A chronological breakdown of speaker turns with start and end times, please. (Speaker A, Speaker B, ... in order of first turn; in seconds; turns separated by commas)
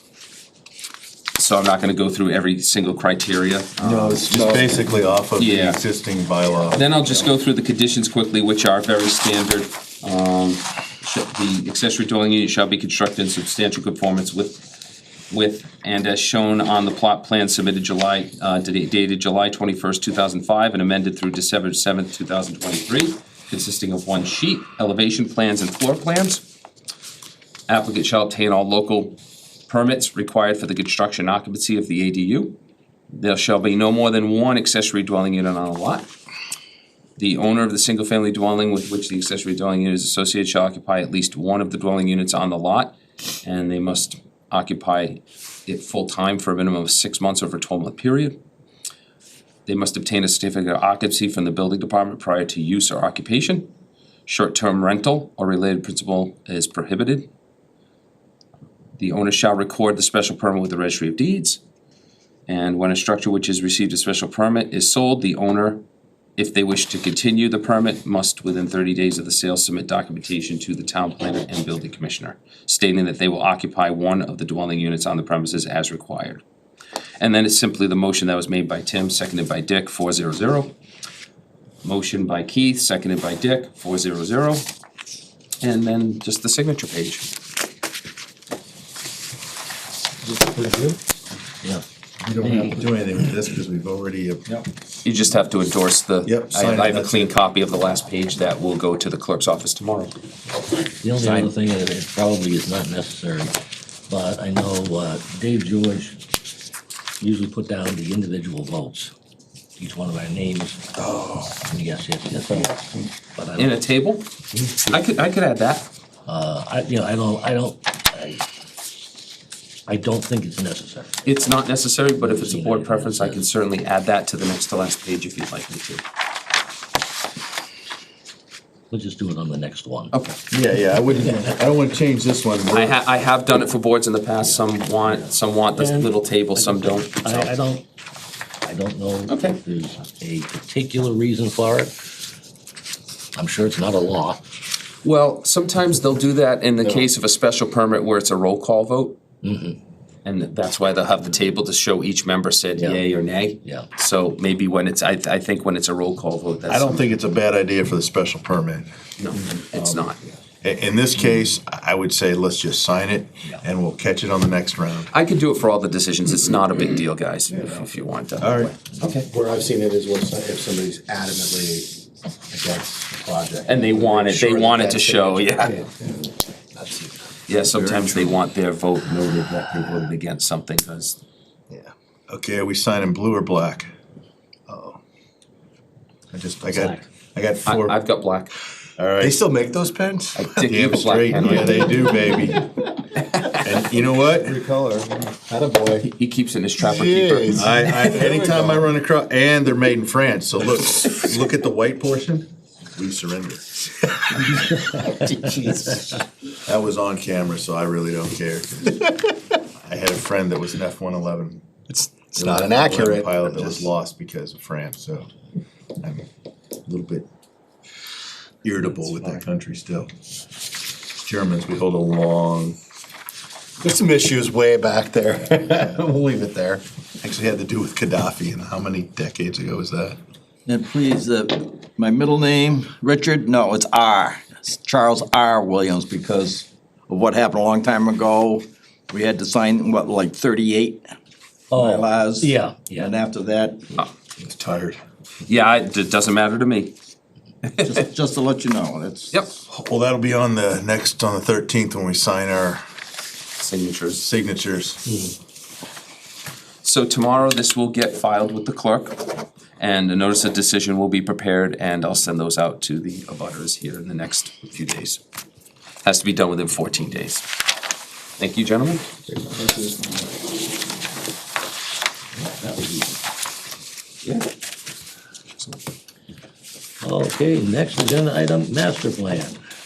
Speaker A: 1.4-4.7, Speaker B: 3.8-6.9, Speaker A: 5.4-5.8, Speaker A: 6.7-14.6, Speaker A: 15.3-26.4, Speaker A: 27.7-32.6, Speaker A: 33.1-36.1, Speaker A: 37.2-48.4, Speaker A: 49.7-53.7, Speaker A: 54.2-57.3, Speaker A: 59.0-61.6, Speaker A: 62.5-65.8, Speaker A: 66.4-76.4, Speaker A: 77.2-80.8, Speaker A: 81.8-84.7, Speaker A: 85.6-87.3, Speaker C: 90.2-91.0, Speaker B: 92.2-94.6, Speaker A: 95.0-100.2, Speaker B: 96.2-97.4, Speaker D: 101.0-103.5, Speaker A: 101.2-101.5, Speaker D: 104.1-106.2, Speaker D: 107.2-109.1, Speaker D: 109.8-113.8, Speaker A: 113.6-115.9, Speaker D: 116.3-118.4, Speaker D: 119.9-121.5, Speaker A: 121.2-126.0, Speaker D: 122.2-123.4, Speaker D: 128.9-130.1, Speaker A: 130.1-130.4, Speaker B: 130.5-133.0, Speaker A: 132.7-137.6, Speaker D: 134.4-137.8, Speaker D: 138.6-141.9, Speaker A: 139.3-139.6, Speaker D: 143.3-144.5, Speaker A: 145.0-149.2, Speaker D: 149.4-149.8, Speaker A: 150.2-157.1, Speaker D: 152.8-153.1, Speaker B: 156.7-158.9, Speaker A: 159.2-160.2, Speaker B: 160.6-165.1, Speaker A: 165.1-169.3, Speaker B: 168.4-168.8, Speaker C: 169.2-171.9, Speaker C: 172.5-177.1, Speaker A: 173.7-175.8, Speaker A: 177.5-181.2, Speaker E: 177.8-178.4, Speaker B: 182.3-183.9, Speaker B: 184.7-184.9, Speaker B: 186.3-187.9, Speaker A: 187.7-188.5, Speaker B: 189.0-189.4, Speaker C: 189.2-190.6, Speaker A: 190.4-192.2, Speaker B: 190.6-192.7, Speaker C: 191.6-192.5, Speaker A: 193.2-193.8, Speaker B: 193.6-194.6, Speaker C: 194.3-196.1, Speaker A: 196.0-198.0, Speaker C: 196.8-198.9, Speaker B: 197.5-203.8, Speaker C: 205.2-206.0, Speaker B: 206.7-209.1, Speaker B: 209.8-211.7, Speaker E: 212.1-213.7, Speaker B: 212.4-215.3, Speaker C: 212.5-212.7, Speaker B: 216.0-216.3, Speaker B: 216.8-217.3, Speaker B: 218.6-220.1, Speaker B: 221.2-222.8, Speaker C: 223.8-226.8, Speaker B: 227.2-230.2, Speaker E: 230.7-241.1, Speaker D: 241.7-243.2, Speaker E: 241.7-243.9, Speaker B: 244.4-245.0, Speaker A: 245.4-246.9, Speaker A: 247.6-247.9, Speaker E: 247.8-249.4, Speaker A: 249.3-249.6, Speaker B: 249.7-252.8, Speaker A: 253.6-254.2, Speaker B: 254.2-255.0, Speaker A: 256.8-265.2, Speaker A: 266.0-267.5, Speaker A: 268.4-269.1, Speaker C: 269.5-270.2, Speaker D: 272.4-273.2, Speaker D: 277.0-279.6